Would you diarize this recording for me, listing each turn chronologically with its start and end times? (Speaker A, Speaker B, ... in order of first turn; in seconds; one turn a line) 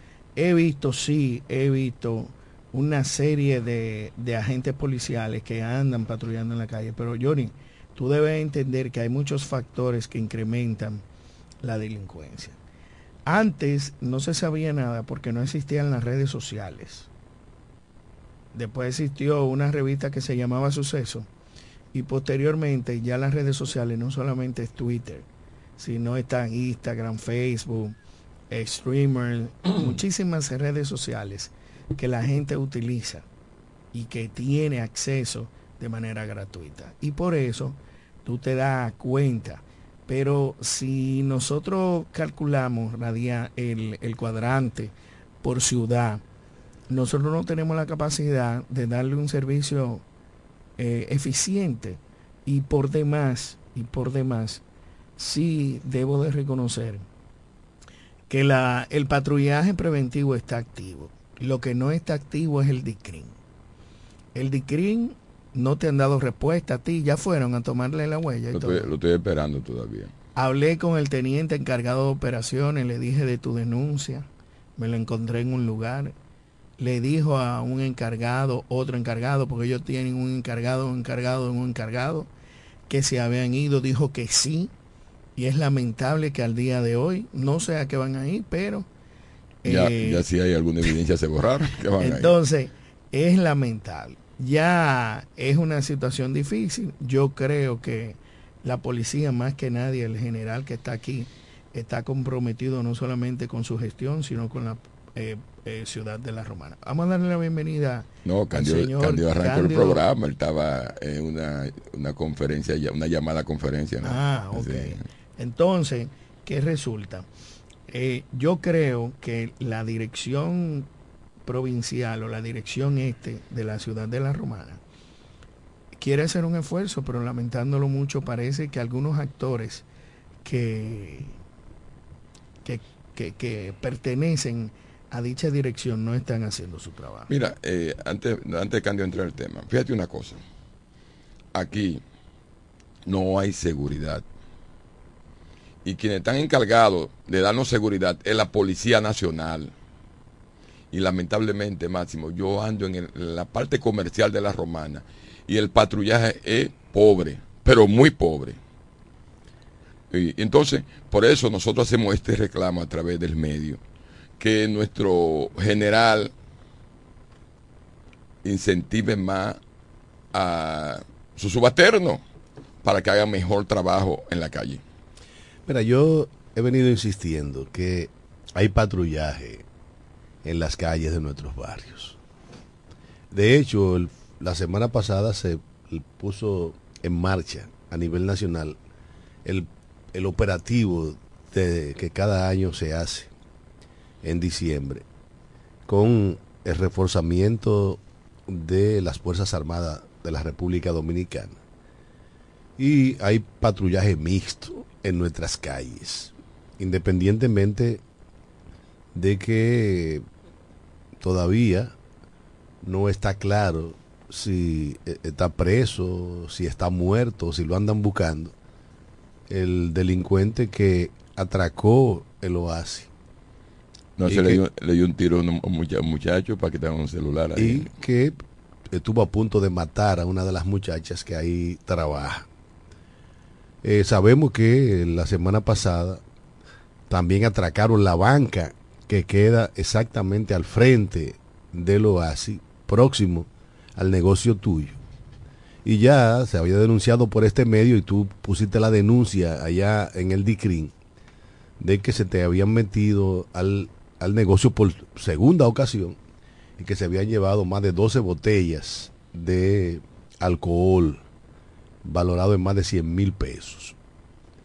Speaker A: 0.3-11.0
Speaker A: 11.6-12.6
Speaker A: 13.2-17.1
Speaker A: 18.5-21.3
Speaker A: 21.9-25.2
Speaker A: 25.8-27.9
Speaker A: 28.5-33.2
Speaker A: 33.9-46.2
Speaker A: 46.9-50.0
Speaker A: 50.8-54.6
Speaker A: 55.2-57.0
Speaker A: 58.3-63.3
Speaker A: 64.3-68.9
Speaker B: 68.5-70.1
Speaker A: 70.3-76.1
Speaker A: 76.8-82.3
Speaker A: 82.9-84.7
Speaker A: 85.4-88.9
Speaker A: 89.6-90.2
Speaker B: 89.7-92.3
Speaker A: 92.0-110.0
Speaker B: 108.2-115.0
Speaker A: 114.0-117.3
Speaker A: 117.9-120.9
Speaker A: 121.4-124.8
Speaker A: 126.0-129.8
Speaker A: 130.4-131.3
Speaker A: 132.6-137.3
Speaker B: 137.3-140.4
Speaker B: 141.5-142.0
Speaker B: 143.1-144.2
Speaker B: 145.8-149.7
Speaker B: 150.9-158.6
Speaker B: 160.1-163.8
Speaker B: 164.4-166.3
Speaker B: 168.4-169.6
Speaker B: 170.3-172.2
Speaker B: 172.8-174.8
Speaker C: 175.7-179.6
Speaker C: 180.4-182.2
Speaker C: 183.3-188.8
Speaker C: 189.4-193.3
Speaker C: 194.2-195.0
Speaker C: 195.9-201.6
Speaker C: 202.8-208.0
Speaker C: 209.1-210.2
Speaker C: 211.2-211.9
Speaker C: 212.8-218.5
Speaker C: 219.5-223.1
Speaker B: 224.2-227.9
Speaker C: 224.3-224.6
Speaker C: 227.6-228.4
Speaker C: 228.9-232.4
Speaker C: 233.8-236.2
Speaker C: 237.1-245.0
Speaker C: 245.8-250.9
Speaker C: 251.8-256.2
Speaker C: 256.8-261.2
Speaker C: 262.0-263.9